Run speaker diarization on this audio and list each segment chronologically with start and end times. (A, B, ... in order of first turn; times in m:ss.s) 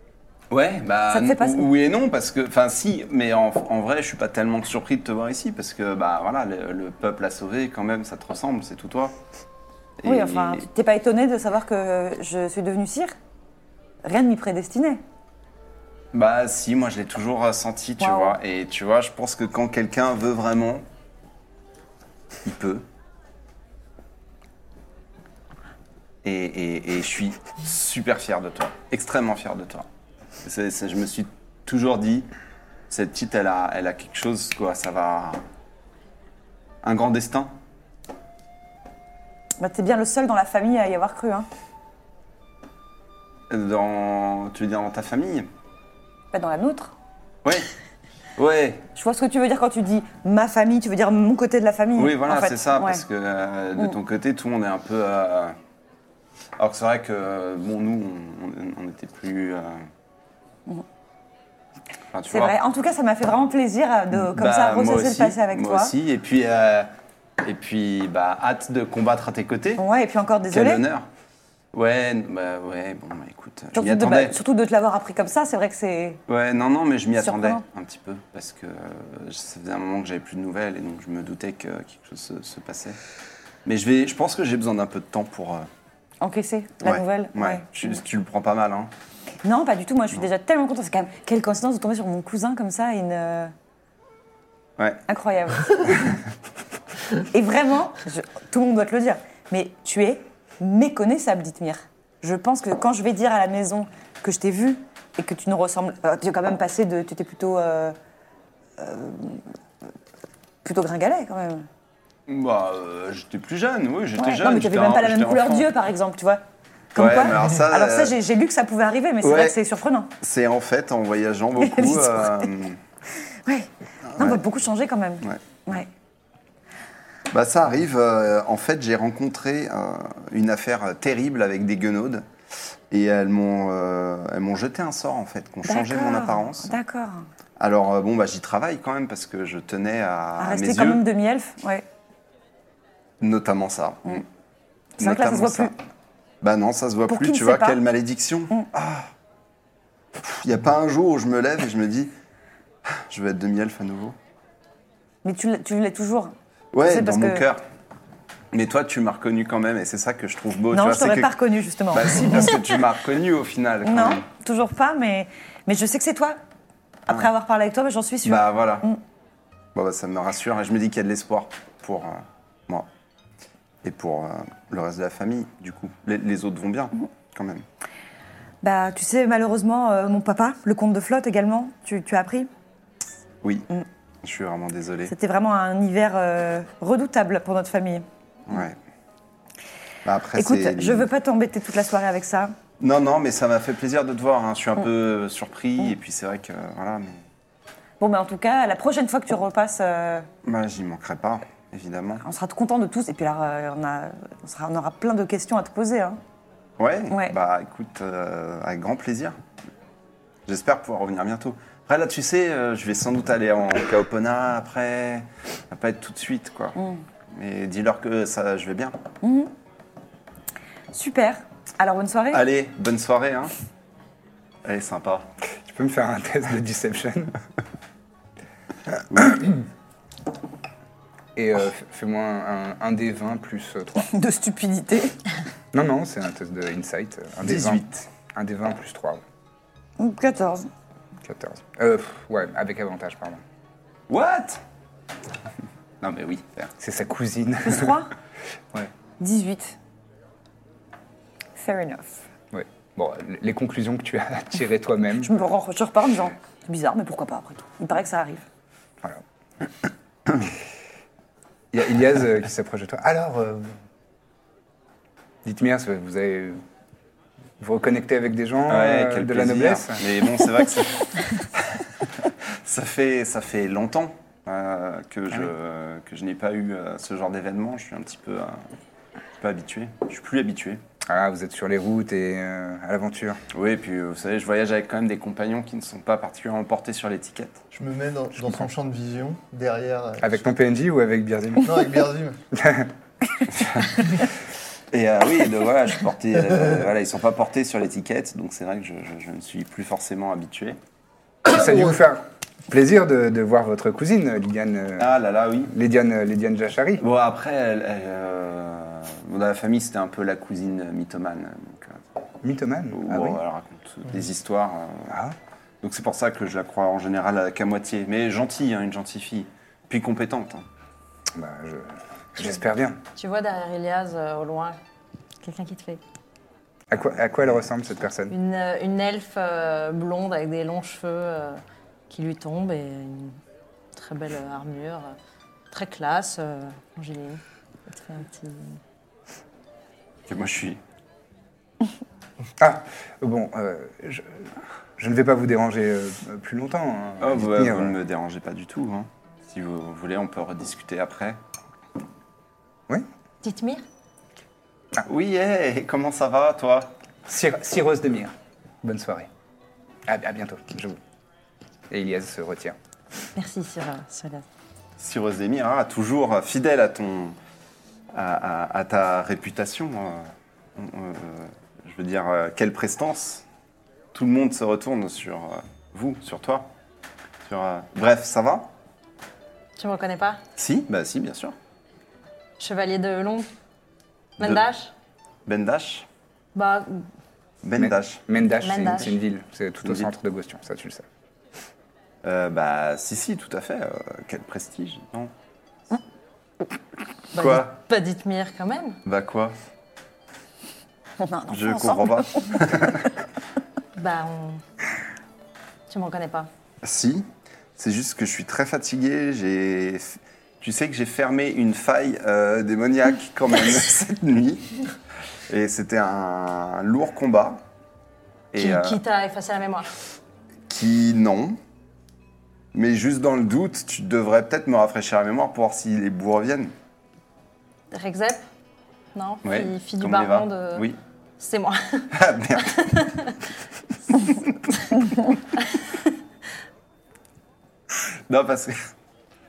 0:00.5-0:09.2 A
0:01.1-0:01.7 B
0:10.0-0:10.7 A
0:10.0-0:13.1 B
0:14.0-0:15.0 B
0:16.1-0:20.8 A
0:18.0-0:18.4 B
0:22.4-0:22.8 A
0:26.2-0:29.9 A
0:30.4-0:32.3 A
0:32.9-0:35.4 A
0:36.8-0:37.5 A
0:39.6-0:41.5 B
0:43.5-0:45.5 A
0:46.3-0:46.9 B
0:47.4-0:47.7 A
0:48.4-0:48.9 A
0:49.0-0:53.0 B
0:52.0-0:55.6 A
0:56.6-0:59.8 A
1:02.1-1:02.6 A
1:02.3-1:05.9 B
1:04.2-1:06.9 A
1:07.4-1:09.8 A
1:09.8-1:10.8 B
1:10.5-1:11.1 A
1:11.7-1:14.4 A
1:13.7-1:16.2 B
1:16.3-1:23.0 A
1:17.2-1:17.6 B
1:23.7-1:25.7 A
1:26.2-1:28.0 B
1:26.8-1:28.9 A
1:29.4-1:33.5 B
1:35.1-1:36.1 B
1:37.2-1:48.0 B
1:48.8-1:49.4 B
1:50.6-1:51.7 B
1:52.3-1:55.7 A
1:54.2-1:56.4 B
1:56.9-2:00.1 B
1:57.0-1:58.2 A
1:59.2-1:59.6 A
2:00.2-2:02.8 A
2:01.6-2:02.5 B
2:03.5-2:05.9 B
2:04.1-2:04.4 A
2:07.3-2:12.3 A
2:12.9-2:16.7 A
2:15.7-2:17.3 B
2:17.6-2:21.0 A
2:20.4-2:21.8 B
2:23.2-2:24.2 A
2:25.0-2:25.7 A
2:25.0-2:25.8 B
2:26.4-2:29.1 A
2:27.1-2:27.8 B
2:30.2-2:32.1 A
2:32.9-2:34.2 A
2:35.2-2:37.4 B
2:36.7-2:37.6 A
2:38.5-2:41.4 A
2:40.7-2:42.6 B
2:41.9-2:44.2 A
2:43.8-2:46.4 B
2:47.1-2:49.0 B
2:48.2-2:48.9 A
2:49.8-2:52.9 A
2:53.8-2:57.6 A
2:58.6-3:02.5 B
3:03.4-3:03.7 A
3:04.2-3:05.1 A
3:05.1-3:08.1 B
3:08.5-3:08.8 A
3:10.0-3:11.1 A
3:10.4-3:12.6 B
3:12.8-3:17.2 A
3:18.0-3:20.3 B
3:20.4-3:22.2 A
3:22.2-3:26.2 B
3:26.8-3:29.4 A
3:27.1-3:27.4 B
3:30.5-3:36.8 A
3:36.8-3:37.0 B
3:37.3-3:39.0 A
3:39.2-3:39.5 B
3:40.9-3:42.4 B
3:42.3-3:43.5 A
3:44.6-3:45.3 A
3:45.6-3:47.3 C
3:49.1-3:49.4 A
3:51.4-3:54.1 C
3:54.0-3:55.2 B
3:55.7-3:59.2 C
3:57.4-3:58.1 A
4:00.0-4:00.7 B
4:01.2-4:03.4 C
4:04.1-4:04.6 A
4:06.0-4:06.7 A
4:06.8-4:08.0 C
4:07.6-4:08.1 B
4:09.2-4:09.8 B
4:11.6-4:12.2 B
4:12.5-4:15.3 C
4:15.2-4:18.4 B
4:21.7-4:23.8 C
4:25.4-4:26.6 C
4:27.6-4:30.0 C
4:28.7-4:38.6 A
4:39.4-4:40.8 A
4:41.1-4:43.4 C
4:43.5-4:47.6 A
4:47.7-4:50.4 D
4:50.2-4:52.0 C
4:51.6-4:52.4 D
4:52.5-4:52.9 C
4:53.6-4:53.9 A
4:54.9-5:00.8 A
5:01.4-5:05.1 C
5:05.0-5:05.7 A
5:05.7-5:07.0 C
5:07.0-5:12.0 A
5:12.4-5:13.4 C
5:12.9-5:15.2 A
5:15.1-5:15.4 C
5:15.8-5:20.7 A
5:21.3-5:23.0 C
5:23.2-5:24.8 E
5:25.4-5:26.0 E
5:26.9-5:28.4 C
5:28.3-5:33.4 E
5:33.9-5:35.2 E
5:35.7-5:38.8 E
5:40.3-5:40.8 A
5:42.6-5:48.0 C
5:47.2-5:51.4 A
5:53.4-5:53.8 E
5:55.0-5:56.9 A
5:57.3-5:59.3 C
6:00.1-6:01.0 C
6:01.9-6:02.8 C
6:03.4-6:04.4 E
6:05.0-6:07.4 A
6:08.1-6:13.4 A
6:14.1-6:16.7 A
6:17.4-6:18.7 A
6:19.8-6:20.4 E
6:20.6-6:21.6 A
6:22.6-6:23.5 E
6:24.4-6:24.9 E
6:25.5-6:26.1 A
6:26.6-6:27.0 E
6:27.6-6:28.2 A
6:27.8-6:31.0 C
6:28.6-6:29.1 E
6:29.8-6:30.1 A
6:32.2-6:35.3 A
6:37.3-6:39.0 E
6:37.4-6:37.7 A
6:39.0-6:39.6 A
6:41.2-6:42.6 B
6:41.5-6:43.1 A
6:44.0-6:44.6 E
6:45.9-6:46.5 E
6:46.8-6:47.3 A
6:47.8-6:54.7 A
6:55.5-6:57.6 A
6:58.5-6:59.0 A
6:58.6-6:59.9 E
7:00.7-7:01.6 A
7:02.7-7:06.7 A
7:07.9-7:08.4 E
7:09.1-7:10.9 E
7:09.4-7:11.0 A
7:11.4-7:13.3 E
7:12.1-7:13.1 A
7:15.6-7:15.9 E
7:18.3-7:18.9 A